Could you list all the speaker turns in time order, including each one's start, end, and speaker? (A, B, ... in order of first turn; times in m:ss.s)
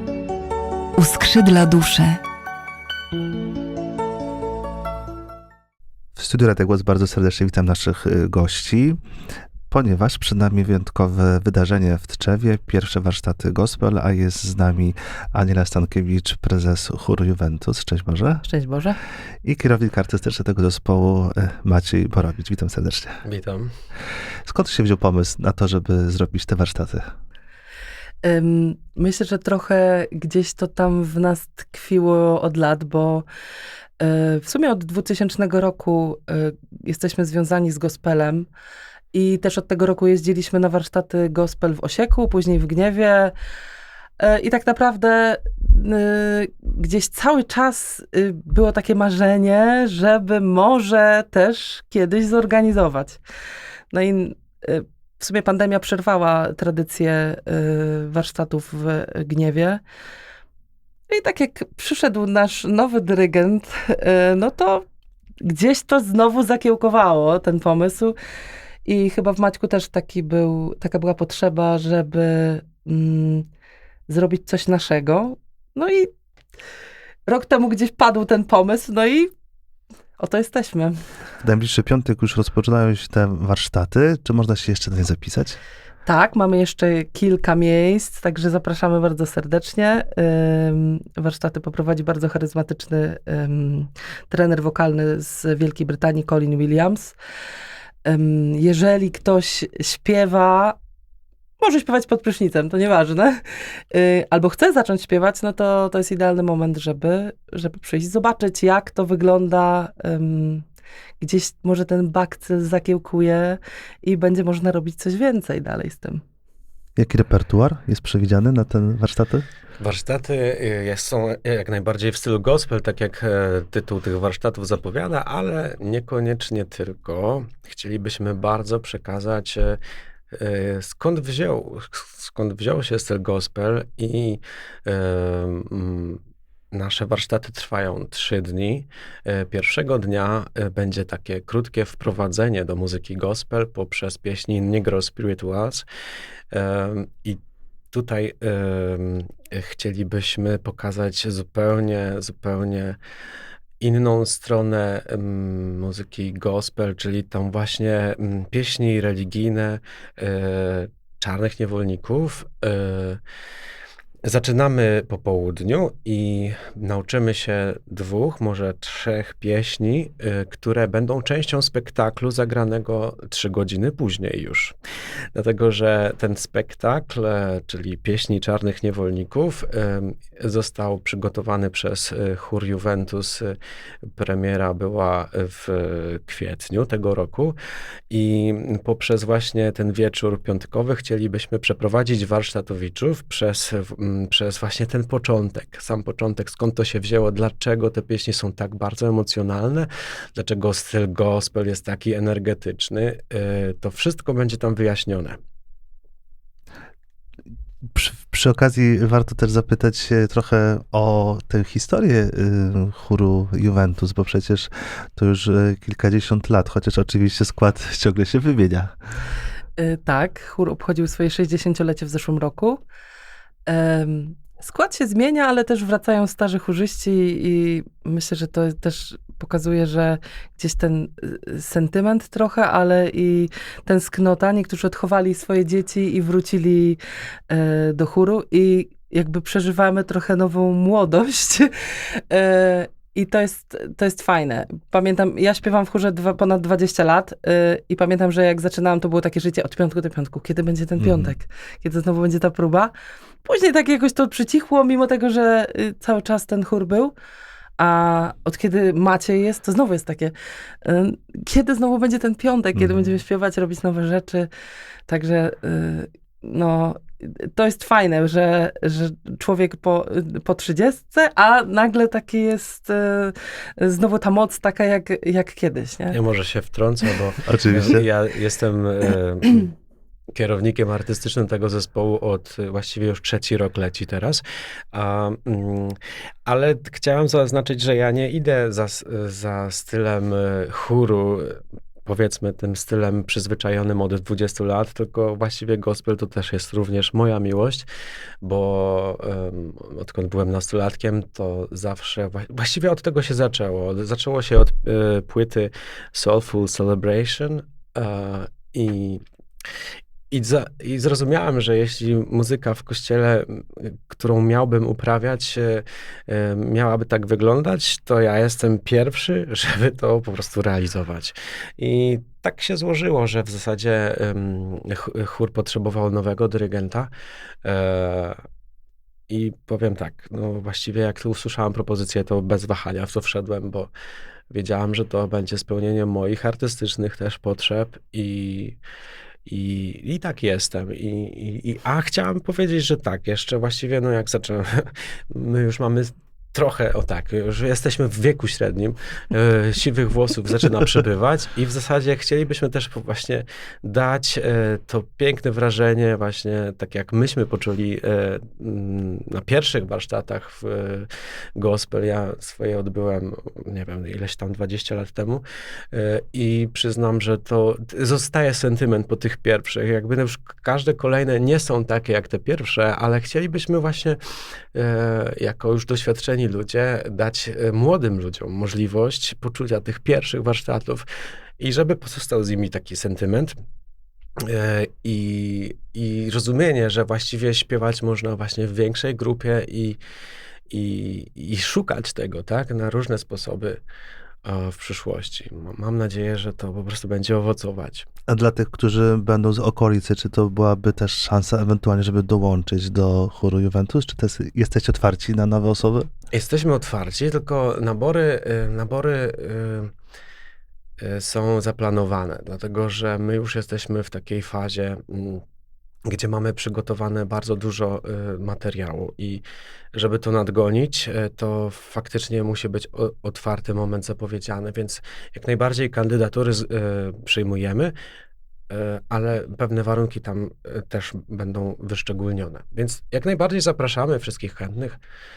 0:01.0-0:02.2 A
0:06.2-0:09.0 B
0:09.7-0:18.4 B
0:18.4-0:19.0 A
0:19.4-0:23.2 B
0:23.2-0:23.7 C
0:24.4-0:27.0 B
0:28.2-0:33.2 A
0:34.0-0:38.5 A
0:39.1-0:43.3 A
0:44.2-0:53.2 A
0:53.9-0:59.8 A
1:01.1-1:04.8 A
1:05.4-1:08.2 A
1:08.8-1:13.4 A
1:14.1-1:16.1 A
1:17.3-1:19.3 A
1:20.2-1:21.0 A
1:21.4-1:25.6 B
1:26.0-1:37.1 A
1:38.0-1:40.8 A
1:41.6-1:50.6 A
1:51.2-1:56.2 A
1:57.0-1:59.4 B
1:59.8-2:09.8 C
2:10.3-2:16.2 C
2:16.7-2:25.8 C
2:26.5-2:27.4 C
2:27.9-2:33.0 C
2:33.8-2:43.2 C
2:44.2-2:54.8 C
2:55.3-3:03.6 C
3:04.2-3:07.6 C
3:08.1-3:25.4 C
3:27.9-3:38.9 B
3:39.8-3:42.8 A
3:43.7-4:12.9 A
4:11.0-4:11.3 B
4:13.4-4:17.1 A
4:17.8-4:24.5 A
4:22.8-4:23.0 B
4:25.1-4:36.2 A
4:36.1-4:39.7 C
4:37.4-4:38.0 B
4:40.3-4:44.4 C
4:44.9-4:57.9 C
4:58.4-5:09.2 C
5:10.3-5:27.1 C
5:27.6-5:28.4 C
5:29.3-5:33.9 C
5:34.5-5:38.8 C
5:39.4-6:14.2 C
6:14.7-6:21.0 C
6:21.6-6:23.6 C
6:24.4-6:30.0 C
6:30.7-6:33.8 C
6:34.4-6:38.1 C
6:38.3-6:46.1 B
6:46.3-6:49.9 C
6:51.0-6:55.4 C
6:56.1-7:07.9 C
7:08.7-7:15.0 C